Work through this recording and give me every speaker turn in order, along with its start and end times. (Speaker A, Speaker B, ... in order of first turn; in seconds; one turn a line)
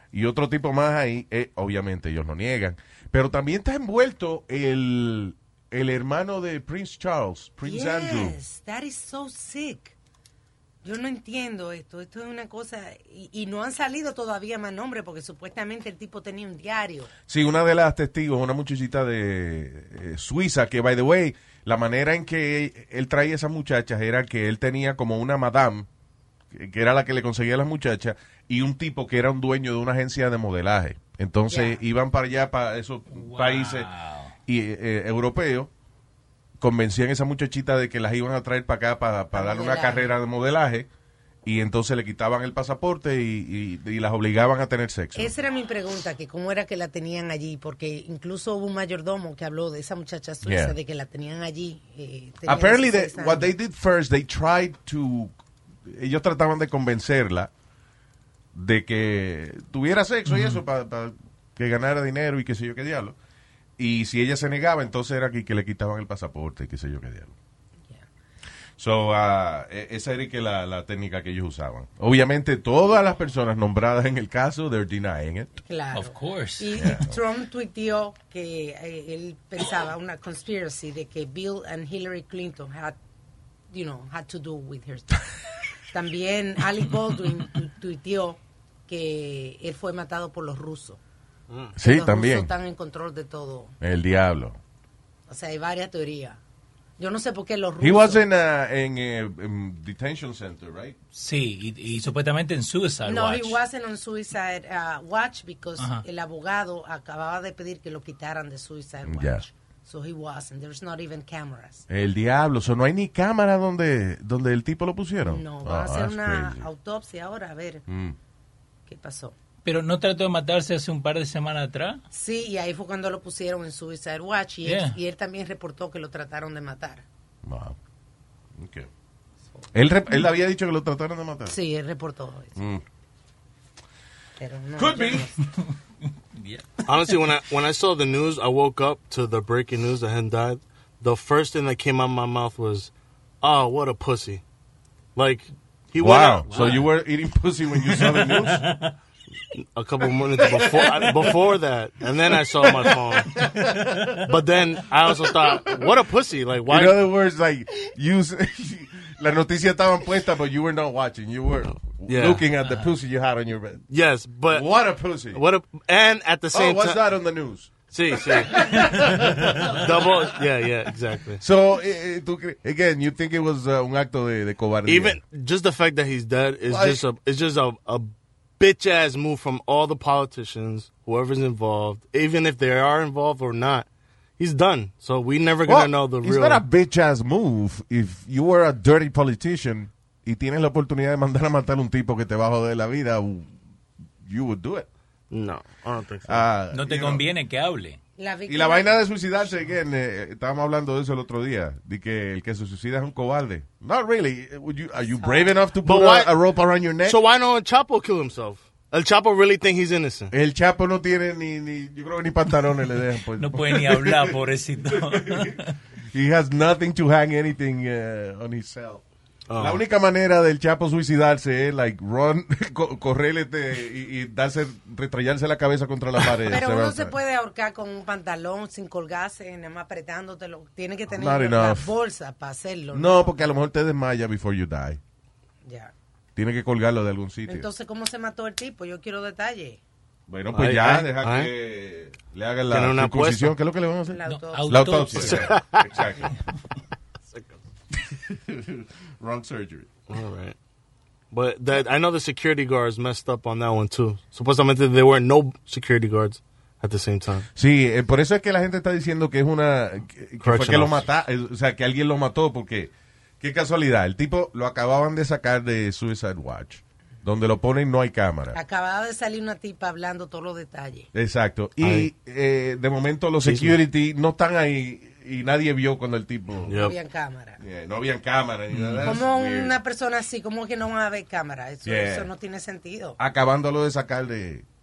Speaker A: 0.1-8.4
Speaker B: 7.6-9.9
Speaker B: 10.8-17.1
Speaker A: 17.3-25.9
Speaker A: 26.5-33.9
Speaker B: 31.5-31.8
Speaker C: 33.1-34.3
Speaker A: 34.5-35.7
Speaker A: 36.6-40.9
Speaker B: 39.3-40.1
Speaker A: 41.4-45.3
Speaker B: 45.1-53.5
Speaker A: 50.4-50.7
Speaker A: 52.5-55.3
Speaker A: 55.9-57.5
Speaker A: 58.5-63.1
Speaker C: 60.3-60.6
Speaker A: 63.8-67.3
Speaker A: 68.8-75.6
Speaker B: 75.6-83.0
Speaker C: 75.9-76.8
Speaker A: 76.7-77.2
Speaker B: 83.7-85.2
Speaker B: 85.9-91.0
Speaker D: 91.5-91.7
Speaker A: 91.8-92.5
Speaker B: 91.8-93.7
Speaker A: 93.8-94.6
Speaker B: 95.3-96.4
Speaker B: 97.0-98.2
Speaker A: 97.8-101.0
Speaker C: 101.1-103.6
Speaker B: 103.0-111.8
Speaker C: 105.8-106.0
Speaker A: 109.0-109.4
Speaker A: 111.9-116.6
Speaker B: 115.2-117.8
Speaker A: 117.9-118.2
Speaker B: 118.9-119.3
Speaker C: 119.6-122.0
Speaker B: 122.1-127.0
Speaker C: 124.6-125.0
Speaker A: 127.4-127.8
Speaker A: 128.5-128.9
Speaker A: 129.7-131.5
Speaker B: 131.5-132.6
Speaker A: 132.6-132.8
Speaker B: 134.4-135.3
Speaker A: 134.8-135.3
Speaker C: 136.3-136.7
Speaker D: 136.9-142.9
Speaker D: 143.4-144.4
Speaker D: 145.2-146.8
Speaker A: 146.0-148.7
Speaker C: 146.5-146.8
Speaker C: 147.9-148.9
Speaker D: 149.7-153.3
Speaker A: 150.5-151.0
Speaker A: 152.8-154.3
Speaker C: 153.5-154.2
Speaker D: 154.2-157.1
Speaker A: 155.2-155.9
Speaker A: 156.7-163.8
Speaker D: 161.7-162.4
Speaker D: 163.9-164.7
Speaker A: 164.5-165.4
Speaker D: 165.3-167.0
Speaker A: 166.5-170.2
Speaker D: 167.9-171.4
Speaker A: 171.4-175.2
Speaker D: 174.8-183.9
Speaker A: 176.7-177.0
Speaker D: 184.4-186.6
Speaker A: 185.6-193.5
Speaker A: 194.2-194.9
Speaker D: 195.3-196.4
Speaker A: 196.2-197.2
Speaker C: 196.7-198.0
Speaker B: 198.2-199.0
Speaker A: 198.5-207.2
Speaker B: 205.2-205.5
Speaker D: 205.8-206.3
Speaker D: 207.0-210.3
Speaker A: 210.3-215.6
Speaker C: 213.4-215.6
Speaker A: 216.1-219.0
Speaker D: 219.5-219.8
Speaker A: 219.6-227.2
Speaker B: 226.5-233.5
Speaker A: 231.1-231.9
Speaker A: 232.9-235.0
Speaker B: 235.6-235.9
Speaker A: 236.3-237.7
Speaker B: 237.5-239.8
Speaker A: 240.3-246.3
Speaker D: 240.5-241.5
Speaker D: 242.7-243.5
Speaker B: 244.1-245.3
Speaker C: 244.2-245.5
Speaker D: 245.3-245.8
Speaker A: 248.3-249.9
Speaker D: 250.1-250.6
Speaker D: 251.3-257.4
Speaker A: 257.5-268.6
Speaker D: 260.4-261.1
Speaker B: 268.5-271.1
Speaker A: 271.1-276.8
Speaker D: 271.8-272.1
Speaker D: 273.4-273.8
Speaker D: 276.7-276.9
Speaker B: 276.8-277.6
Speaker A: 277.6-279.8
Speaker C: 278.7-279.1
Speaker B: 279.0-283.2
Speaker A: 281.8-282.3
Speaker A: 283.2-284.6